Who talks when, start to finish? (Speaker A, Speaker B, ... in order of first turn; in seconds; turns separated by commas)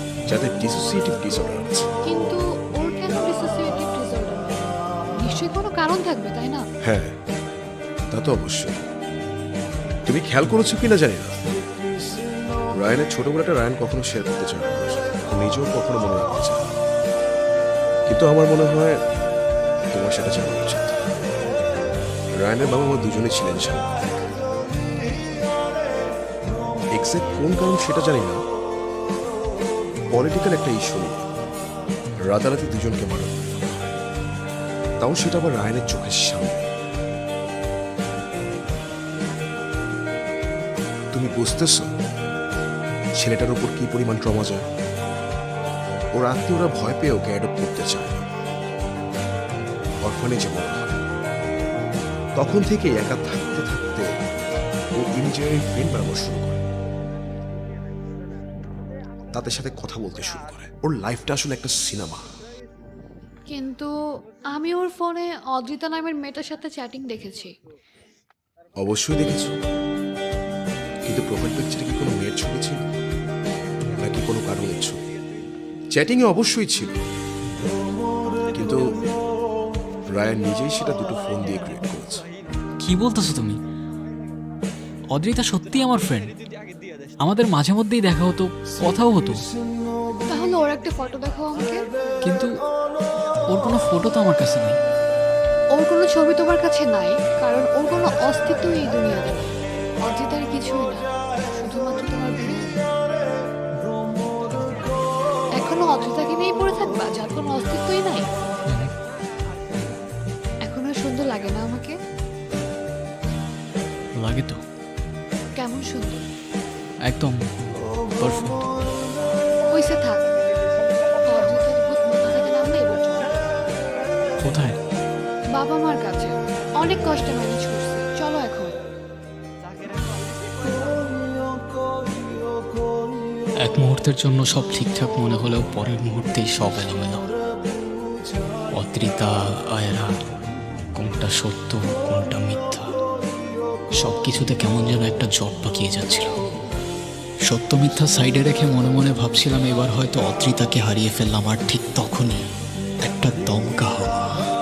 Speaker A: 0.3-1.9, Speaker B: 2.1-6.6, Speaker A: 6.8-7.1, Speaker A: 8.1-8.8, Speaker A: 10.1-11.4, Speaker A: 12.8-16.6, Speaker A: 18.1-19.0, Speaker A: 19.9-21.0, Speaker A: 22.4-24.1, Speaker A: 26.9-28.4, Speaker A: 30.1-31.3, Speaker A: 32.3-33.9, Speaker A: 35.0-36.6, Speaker A: 41.1-41.9, Speaker A: 43.2-44.6, Speaker A: 46.1-48.2, Speaker A: 50.0-51.0, Speaker A: 52.4-54.1, Speaker A: 55.0-56.6, Speaker A: 59.3-62.3, Speaker B: 63.5-63.9, Speaker B: 64.5-67.5, Speaker A: 68.8-69.6, Speaker A: 71.1-72.8, Speaker A: 74.0-75.0, Speaker A: 75.9-77.0, Speaker A: 78.5-79.0, Speaker A: 80.1-82.2, Speaker C: 82.8-83.6, Speaker C: 85.1-86.3, Speaker C: 87.2-89.4, Speaker B: 90.3-91.8, Speaker C: 92.2-92.5, Speaker C: 93.5-94.8, Speaker B: 95.8-99.5, Speaker B: 100.0-101.0, Speaker B: 101.6-102.7, Speaker B: 105.6-108.3, Speaker B: 110.7-111.9, Speaker C: 114.2-114.6, Speaker B: 115.6-116.2, Speaker C: 117.1-117.4, Speaker C: 118.2-118.7, Speaker B: 119.7-120.3, Speaker B: 121.3-123.4, Speaker C: 124.4-124.8, Speaker B: 125.5-128.8, Speaker C: 133.6-137.2, Speaker C: 138.8-140.2, Speaker C: 140.9-142.9, Speaker C: 144.0-146.3, Speaker C: 147.5-152.4, Speaker C: 153.0-154.4